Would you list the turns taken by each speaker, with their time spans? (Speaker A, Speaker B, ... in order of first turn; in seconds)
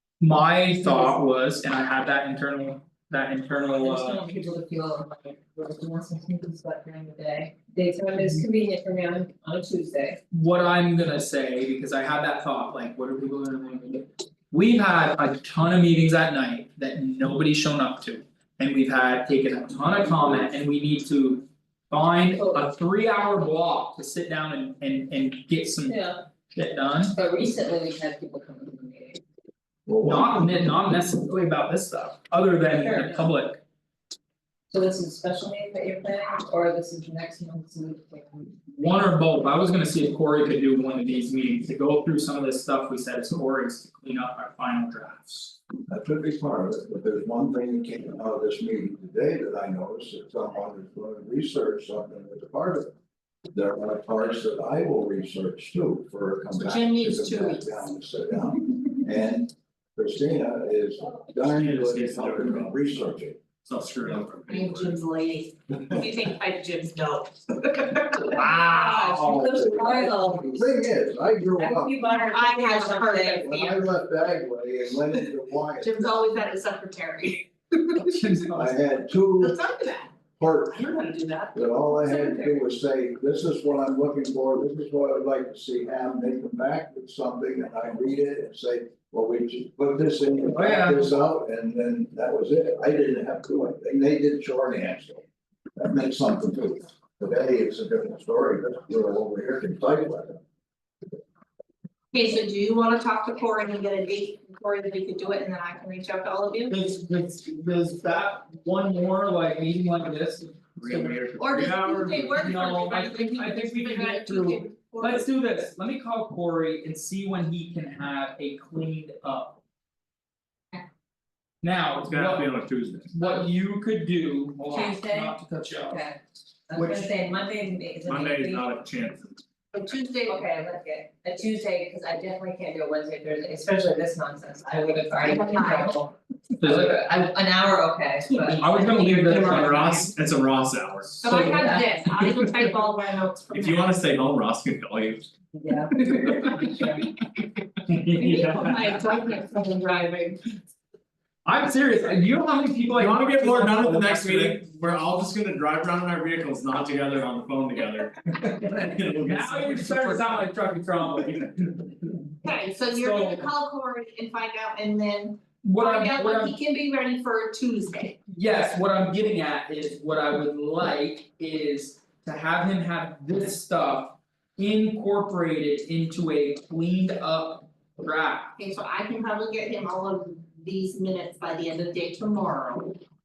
Speaker A: 0.2-4.2, 10.3-26.0, 26.5-27.1, 30.0-33.6, 38.7-45.6, 68.5-69.1, 78.0-78.8, 90.4-91.1, 106.7-111.2, 112.3-119.6, 121.6-122.5, 123.1-126.0, 126.7-127.1, 136.6-137.0, 138.4-140.1, 147.9-149.2, 151.4-154.6, 159.2-162.3, 162.9-163.5, 165.6-166.5, 168.3-178.5
Speaker B: 0.8-1.1, 3.8-10.2, 22.3-22.7, 25.9-26.2, 27.1-29.2, 32.7-33.3, 34.7-38.5, 69.2-70.6, 71.5-73.5, 81.0-81.4, 124.7-128.7, 130.2-139.9, 141.2-142.6, 145.5-147.1
Speaker C: 29.9-30.5, 45.9-52.9, 53.5-63.4, 69.0-72.0, 73.4-76.2, 78.5-79.6, 80.4-80.9, 81.5-95.2, 95.8-100.4
Speaker D: 56.5-57.9, 64.5-70.1, 72.0-73.8, 75.8-78.2, 79.4-80.2, 81.0-81.5, 102.1-106.8, 111.4-115.3, 124.7-124.9, 129.7-130.5, 135.2-136.0, 138.3-139.8, 141.2-144.0, 146.1-146.8, 148.1-150.4, 162.4-168.2, 178.6-183.0
Speaker E: 61.4-63.0, 63.6-65.0, 110.8-112.5, 121.9-123.1, 128.0-129.4, 139.3-141.3, 143.5-145.3, 152.9-160.4